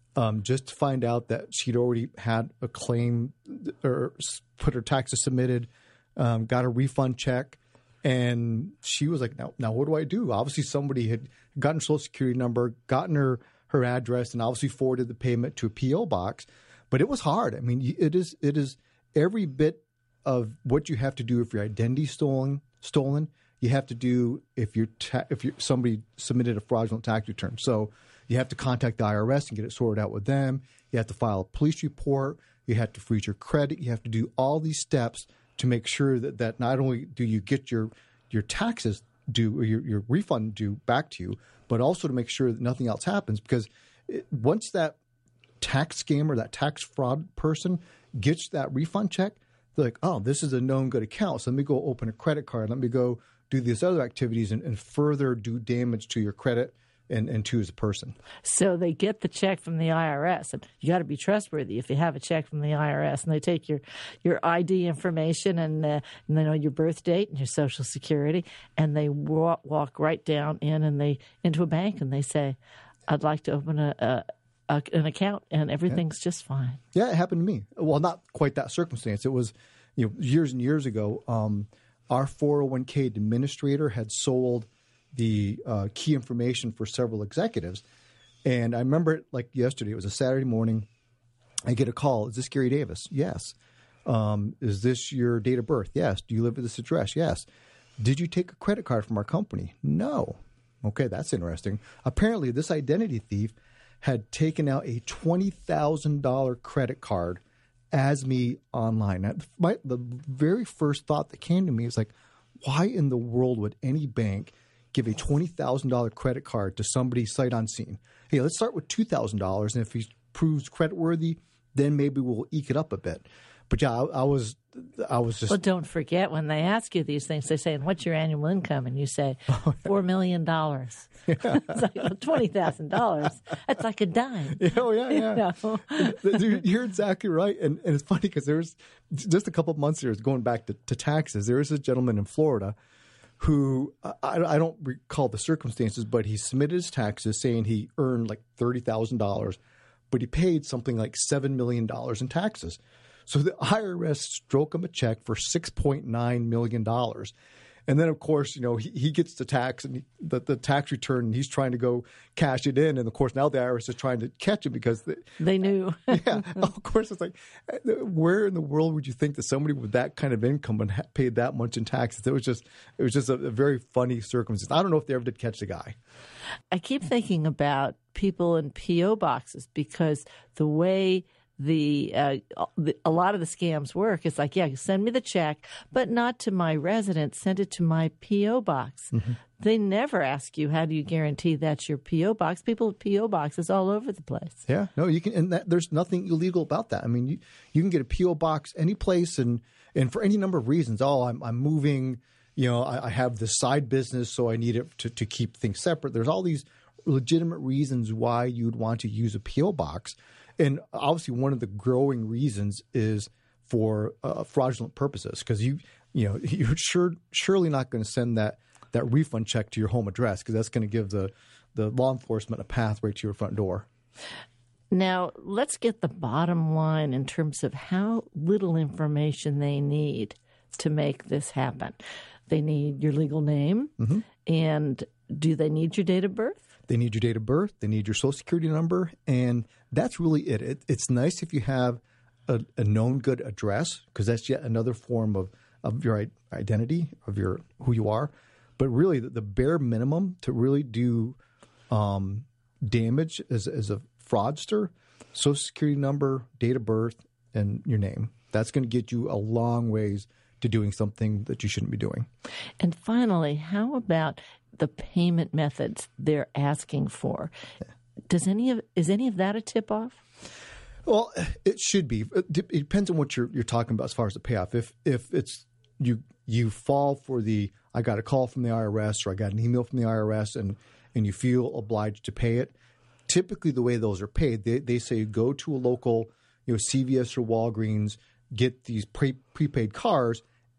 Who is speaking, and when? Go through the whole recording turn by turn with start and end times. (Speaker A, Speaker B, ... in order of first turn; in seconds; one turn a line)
Speaker A: 0.2-45.0
Speaker A: 45.6-58.1
Speaker B: 58.5-76.8
Speaker A: 76.9-87.8
Speaker A: 88.5-90.9
Speaker A: 91.7-93.5
Speaker A: 94.0-97.5
Speaker A: 98.0-107.4
Speaker A: 107.9-125.6
Speaker B: 125.5-136.6
Speaker A: 129.5-129.8
Speaker A: 131.3-131.7
Speaker A: 134.6-142.7
Speaker A: 143.4-149.6
Speaker A: 150.1-157.3
Speaker A: 157.9-165.3
Speaker B: 165.4-166.6
Speaker A: 166.1-175.9
Speaker B: 176.7-194.6
Speaker A: 194.7-223.9
Speaker B: 224.9-236.6
Speaker A: 236.9-251.4
Speaker A: 251.9-262.3
Speaker B: 262.8-267.5
Speaker B: 268.3-270.2
Speaker A: 271.1-282.7
Speaker A: 283.3-290.4